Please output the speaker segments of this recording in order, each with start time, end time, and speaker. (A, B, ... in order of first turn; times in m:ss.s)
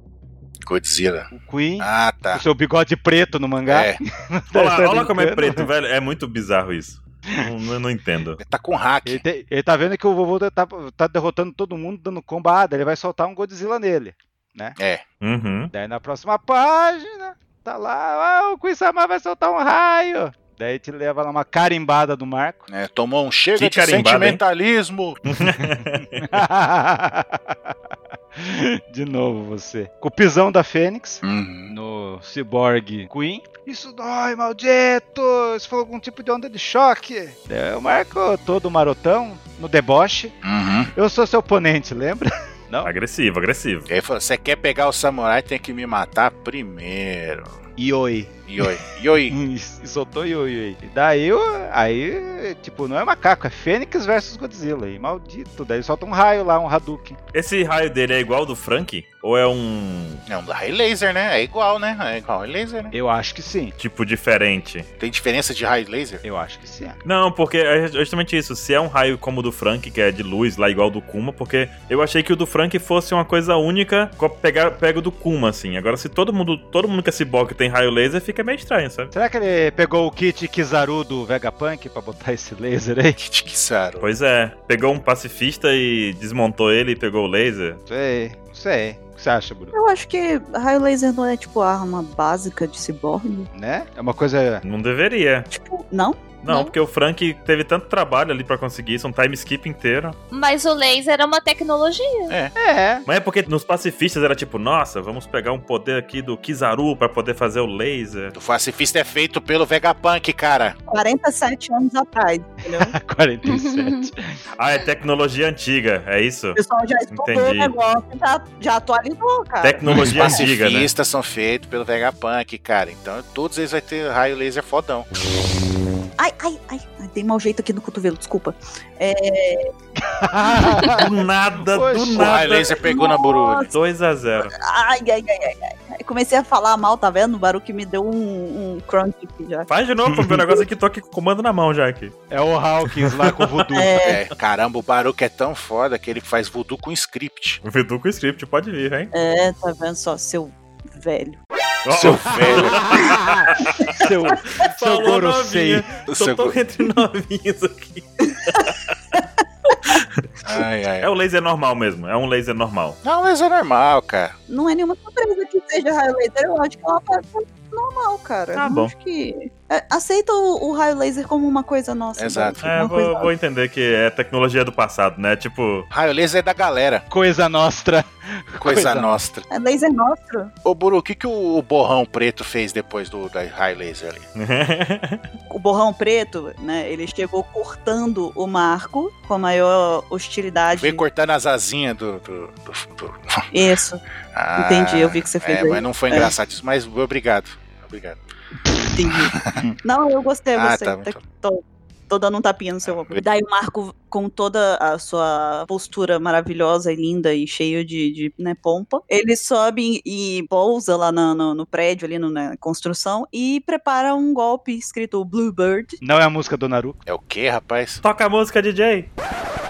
0:00.7-0:02.4 A
0:01.3-0:05.7 B
0:03.7-0:04.0 A
0:04.5-0:08.4 C
0:08.4-0:09.2 A
0:09.0-0:14.8 B
0:14.8-0:15.0 A
0:15.2-0:15.7 C
0:15.7-0:22.6 B
0:22.7-0:25.2 A
0:23.6-0:24.4 C
0:25.3-0:26.2 C
0:25.8-0:27.7 B
0:28.4-0:40.4 B
0:31.2-0:31.7 A
0:40.4-0:40.9 A
0:40.9-0:42.9 B
0:42.8-0:43.9 C
0:43.9-0:47.6 A
0:47.8-0:57.2 B
0:48.5-0:49.4 A
0:57.3-1:00.2 C
1:00.3-1:02.9 A
1:02.9-1:03.8 B
1:03.8-1:04.9 C
1:05.0-1:06.2 A
1:06.2-1:07.0 B
1:07.0-1:19.1 C
1:19.1-1:23.2 B
1:23.2-1:24.1 A
1:24.0-1:27.8 C
1:27.9-1:29.7 B
1:29.7-1:33.5 D
1:33.5-1:34.6 B
1:34.6-1:35.5 C
1:35.5-1:36.2 D
1:36.4-1:40.2 C
1:36.5-1:36.7 E
1:40.3-1:42.4 E
1:42.6-1:43.1 B
1:43.1-1:48.4 C
1:48.4-1:50.8 A
1:50.9-1:52.9 D
1:52.7-1:54.3 B
1:53.5-1:54.1 E
1:54.6-1:56.6 C
1:56.6-1:59.8 D
1:57.1-1:57.7 C
1:59.6-2:00.9 C
2:00.0-2:05.1 A
2:06.2-2:09.7 D
2:10.0-2:12.7 B
2:10.9-2:12.7 C
2:12.2-2:13.7 A
2:12.8-2:13.7 D
2:13.7-2:14.5 C
2:14.5-2:19.7 D
2:19.7-2:22.1 C
2:20.1-2:20.6 B
2:22.3-2:24.0 B
2:22.9-2:23.6 C
2:23.8-2:24.2 D
2:24.0-2:27.6 A
2:27.6-2:29.1 C
2:29.1-2:31.4 D
2:31.8-2:38.9 C
2:31.9-2:33.1 A
2:32.4-2:35.9 B
2:36.1-2:36.6 A
2:38.6-2:39.2 D
2:39.8-2:40.2 C
2:40.4-2:41.1 A
2:41.0-2:43.0 C
2:43.0-2:44.4 A
2:44.5-2:53.3 D
2:48.6-2:48.9 C
2:52.2-2:52.6 A
2:52.6-2:55.9 C
2:55.9-2:57.1 A
2:57.1-2:59.2 B
2:58.6-2:59.5 A
2:59.5-3:00.5 D
3:00.6-3:04.2 A
3:04.4-3:05.3 C
3:05.5-3:11.0 D
3:10.7-3:13.5 A
3:13.5-3:14.0 D
3:14.3-3:18.2 A
3:14.6-3:16.3 D
3:18.9-3:36.0 D
3:19.4-3:19.7 A
3:20.6-3:21.2 A
3:22.9-3:23.2 A
3:36.0-3:37.0 B
3:37.1-3:38.0 A
3:38.0-3:39.1 C